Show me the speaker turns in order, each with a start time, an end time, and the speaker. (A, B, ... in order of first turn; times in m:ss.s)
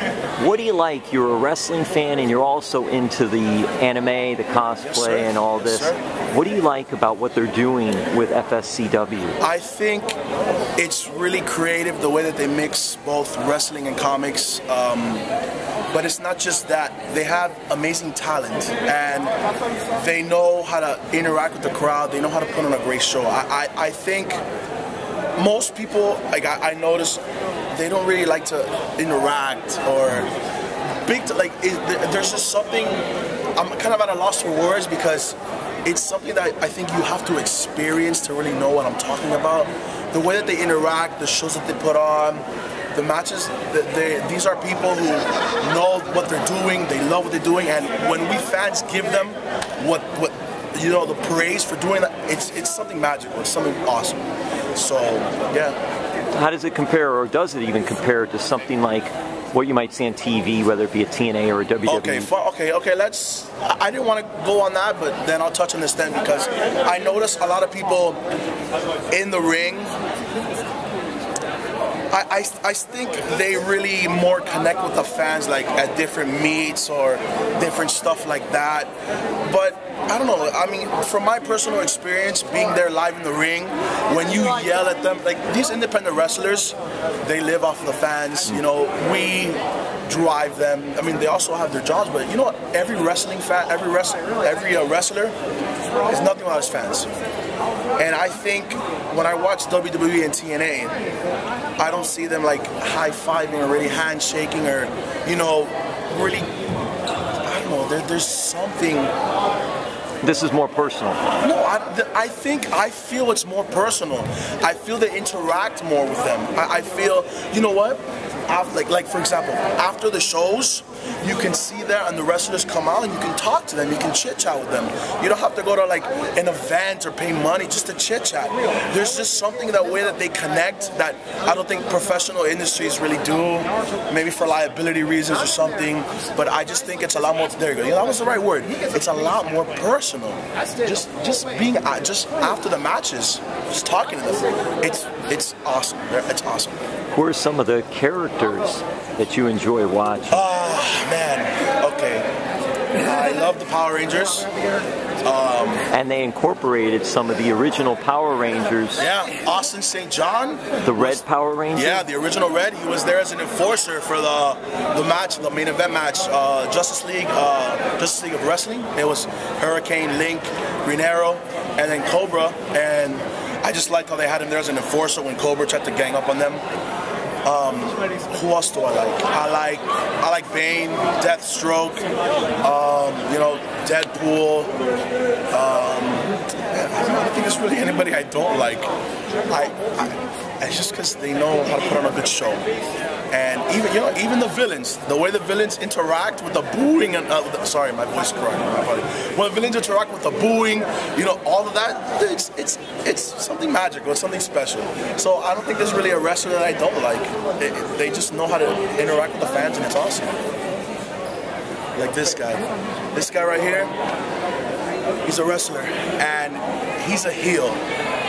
0:00.4-0:09.4 A
0:04.8-0:06.0 B
0:09.4-0:10.2 B
0:10.8-0:15.2 B
0:15.9-0:19.3 B
0:19.9-0:24.4 B
0:25.4-0:27.2 B
0:27.7-0:30.3 B
0:31.0-0:54.2 B
0:54.7-0:55.8 B
0:56.3-1:02.3 A
1:01.8-1:08.2 B
1:09.1-1:09.9 B
1:12.1-1:18.9 B
1:19.4-1:35.3 B
1:36.0-1:37.1 B
1:38.0-1:40.9 B
1:41.8-1:46.5 B
1:47.4-1:49.1 B
1:50.2-1:51.2 A
1:51.4-2:26.8 B
2:27.1-2:30.5 A
2:30.3-2:32.3 B
2:33.0-2:34.5 B
2:35.2-2:35.8 B
2:35.9-2:39.0 A
2:39.0-2:41.2 B
2:40.8-2:42.0 A
2:41.7-2:56.6 B
2:57.4-3:02.0 B
3:02.6-3:04.7 B
3:05.5-3:08.9 B
3:09.5-3:12.6 B
3:13.3-3:30.3 B
3:32.0-3:33.9 B
3:35.2-3:37.8 B